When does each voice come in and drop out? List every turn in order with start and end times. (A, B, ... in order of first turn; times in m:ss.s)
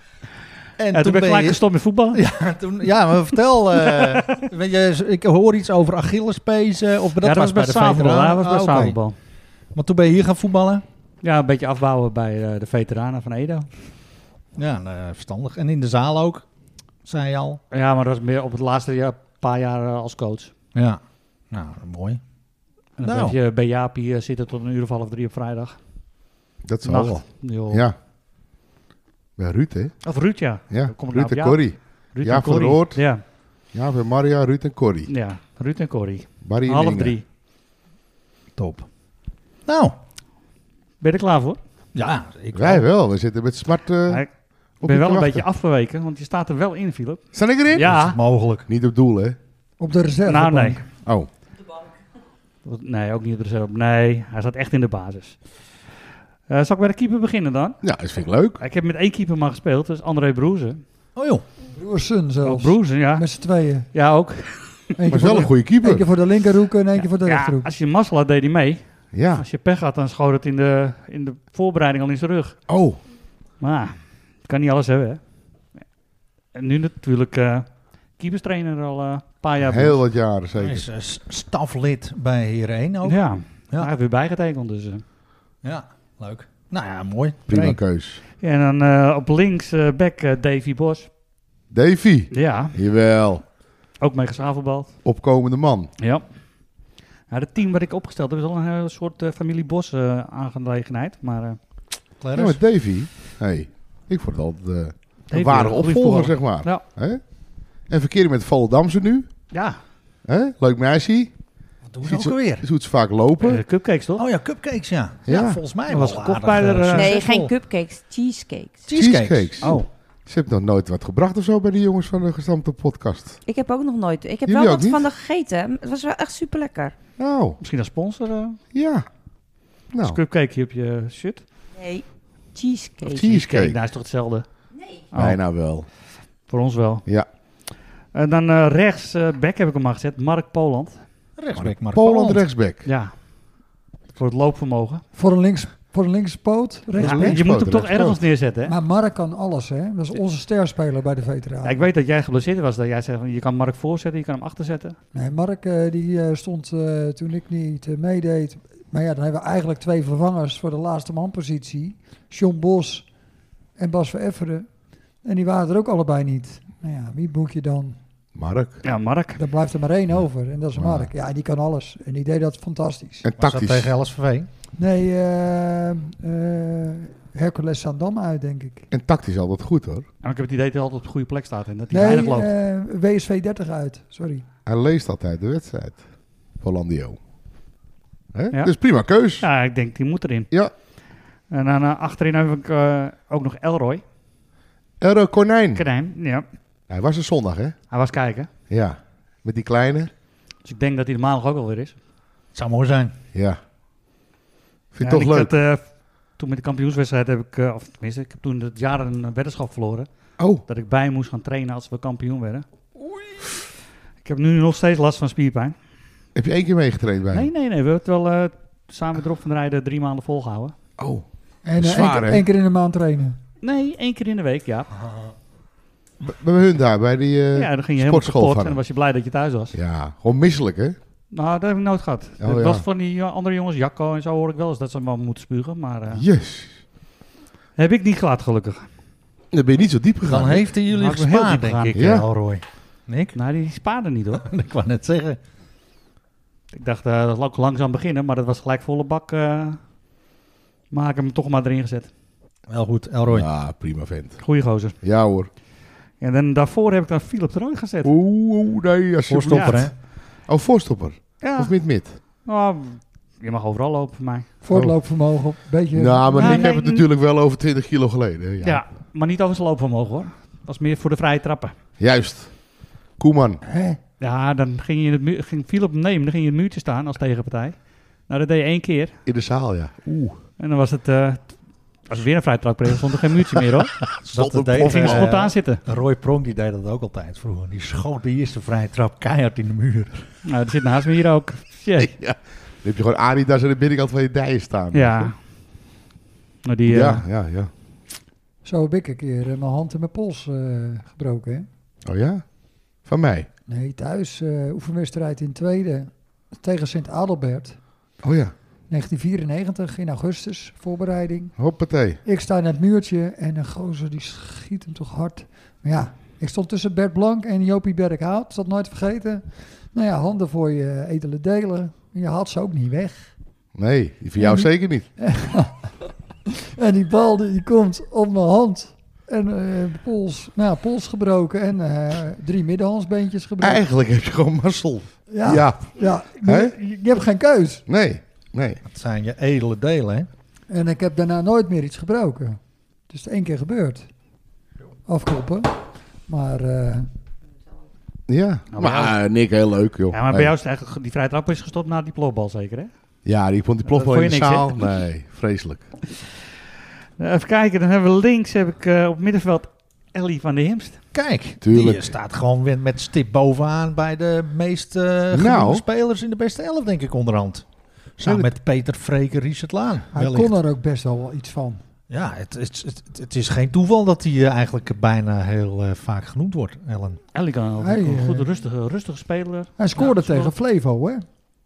0:00.8-0:01.6 A
0:00.9-0:02.2 B
0:02.1-0:09.0 A
0:03.8-0:04.4 B
0:07.2-0:09.2 B
0:09.7-0:10.8 A
0:11.2-0:13.7 B
0:14.6-0:16.5 A
0:17.0-0:17.6 A
0:17.7-0:20.5 B
0:20.8-0:22.2 A
0:23.0-0:25.8 B
0:23.0-0:23.4 A
0:26.6-0:27.9 C
0:26.8-0:27.9 B
0:29.4-0:30.0 C
0:30.0-0:33.2 B
0:30.7-0:33.0 C
0:33.7-0:35.1 C
0:35.1-0:37.2 B
0:36.4-0:37.2 C
0:38.6-0:38.9 A
0:39.7-0:40.0 A
0:41.0-0:41.6 B
0:41.9-0:42.8 A
0:42.5-0:44.2 C
0:44.8-0:45.5 C
0:44.8-0:48.2 B
0:47.3-0:48.0 C
0:47.8-0:48.7 A
0:48.7-0:49.4 C
0:49.8-0:50.8 D
0:50.3-0:50.8 B
0:51.0-0:51.3 C
0:52.6-0:55.4 B
0:56.5-0:57.8 B
0:57.8-0:58.6 C
0:58.6-1:00.8 B
1:01.2-1:01.4 A
1:01.7-1:03.9 D
1:02.4-1:03.3 B
1:03.9-1:04.9 B
1:05.0-1:07.7 D
1:05.1-1:06.1 C
1:07.0-1:08.8 B
1:09.1-1:09.4 C
1:09.4-1:12.6 B
1:12.7-1:13.0 C
1:13.6-1:15.2 B
1:16.5-1:20.0 B
1:19.6-1:20.9 C
1:20.6-1:23.9 A
1:23.0-1:25.0 B
1:25.6-1:27.8 A
1:27.5-1:28.2 C
1:28.4-1:31.1 B
1:31.7-1:33.4 C
1:32.3-1:32.8 B
1:34.0-1:35.0 B
1:35.0-1:35.9 C
1:36.0-1:36.3 B
1:37.3-1:41.9 B
1:42.2-1:42.6 A
1:42.3-1:47.2 C
1:45.3-1:46.9 B
1:47.8-1:49.4 C
1:49.5-1:49.8 B
1:50.2-1:51.3 C
1:51.9-1:52.7 A
1:52.0-1:53.6 C
1:53.4-1:54.3 B
1:54.2-1:57.5 A
1:55.3-1:55.6 C
1:55.9-1:57.2 B
1:56.9-1:58.8 E
1:58.9-1:59.6 A
1:58.9-2:03.4 C
1:59.6-1:59.9 B
2:03.5-2:07.0 E
2:04.4-2:05.1 C
2:07.2-2:07.6 C
2:07.6-2:08.6 B
2:08.7-2:09.1 C
2:09.9-2:10.2 C
2:10.0-2:11.4 B
2:11.7-2:13.3 E
2:13.1-2:13.8 C
2:13.3-2:14.5 B
2:15.1-2:15.4 B
2:15.2-2:15.9 C
2:16.5-2:17.0 B
2:18.1-2:21.0 B
2:21.4-2:22.4 A
2:21.6-2:22.9 C
2:22.8-2:23.2 B
2:24.1-2:25.0 B
2:25.2-2:27.4 D
2:27.0-2:28.2 C
2:27.0-2:28.7 B
2:28.6-2:31.9 D
2:31.6-2:35.0 B
2:35.1-2:43.1 D
2:43.8-2:44.7 D
2:45.2-2:48.0 D
2:48.4-2:48.8 C
2:48.8-2:49.4 B
2:49.4-2:53.3 D
2:50.8-2:51.1 C
2:53.2-2:53.9 C
2:53.4-2:54.5 A
2:54.8-2:58.9 D
2:58.9-3:00.1 C
3:00.2-3:02.5 B
3:01.9-3:04.4 D
3:04.7-3:07.2 C
3:08.3-3:09.5 C
3:09.4-3:10.5 B
3:11.5-3:14.0 B
3:15.0-3:15.9 C
3:15.8-3:16.4 B
3:16.9-3:17.8 C
3:17.9-3:18.5 B
3:18.7-3:20.1 C
3:20.6-3:22.0 B
3:22.6-3:23.1 A
3:23.3-3:23.6 C
3:24.9-3:25.5 C
3:25.0-3:30.1 B
3:30.4-3:30.6 C
3:30.7-3:32.6 B
3:34.2-3:35.8 B
3:36.4-3:37.5 C
3:37.3-3:40.7 B
3:41.0-3:41.2 C
3:41.6-3:43.4 D
3:41.8-3:42.5 C
3:43.6-3:44.9 B
3:46.2-3:48.8 C
3:47.5-3:49.8 B
3:49.7-3:51.0 C
3:51.3-3:56.2 B
3:52.4-3:52.8 C
3:56.1-3:56.8 C
3:57.8-3:58.9 B
3:59.5-4:00.7 C
4:00.3-4:03.4 A
4:00.9-4:02.0 B
4:02.0-4:02.2 C
4:03.4-4:04.5 B
4:04.3-4:05.4 A
4:06.7-4:09.8 B
4:10.9-4:12.1 B
4:12.7-4:13.5 A
4:13.3-4:14.4 C
4:14.4-4:15.0 B
4:15.0-4:15.5 C
4:16.2-4:18.1 B
4:18.0-4:22.1 C
4:19.3-4:19.9 A
4:19.5-4:19.8 B
4:21.4-4:24.5 B
4:24.6-4:26.7 D
4:24.7-4:25.0 C
4:25.9-4:28.8 C
4:26.4-4:27.1 B
4:28.6-4:31.8 B
4:32.0-4:33.6 C
4:33.7-4:34.0 D
4:34.2-4:39.2 B
4:39.3-4:40.4 C
4:40.6-4:44.1 B
4:44.1-4:45.4 C
4:44.3-4:50.3 A
4:44.8-4:45.8 B
4:50.4-4:52.1 B
4:52.0-4:55.3 C
4:54.9-4:55.4 B
4:56.6-4:57.2 B
4:56.9-4:57.7 C
4:58.6-5:01.7 D
5:02.0-5:03.5 C
5:03.7-5:07.8 D
5:08.2-5:08.5 C
5:08.9-5:11.6 D
5:11.6-5:12.2 C
5:12.2-5:23.3 D
5:23.8-5:25.1 C
5:24.4-5:25.9 D
5:26.7-5:33.8 D
5:33.6-5:36.8 C
5:35.3-5:37.8 D
5:37.9-5:38.8 C
5:38.8-5:40.3 A
5:40.7-5:44.1 D
5:45.1-5:45.8 D
5:46.3-5:47.1 D
5:48.3-5:50.5 C
5:48.7-5:49.2 B
5:50.1-5:52.9 B
5:53.2-5:55.9 C
5:53.8-5:54.8 B
5:57.2-6:01.0 B
6:01.1-6:10.6 A
6:01.6-6:02.2 C
6:05.3-6:05.8 C
6:08.2-6:08.5 C
6:10.1-6:11.8 D
6:12.1-6:17.2 A
6:17.3-6:20.5 B
6:17.8-6:18.5 D
6:19.8-6:21.2 D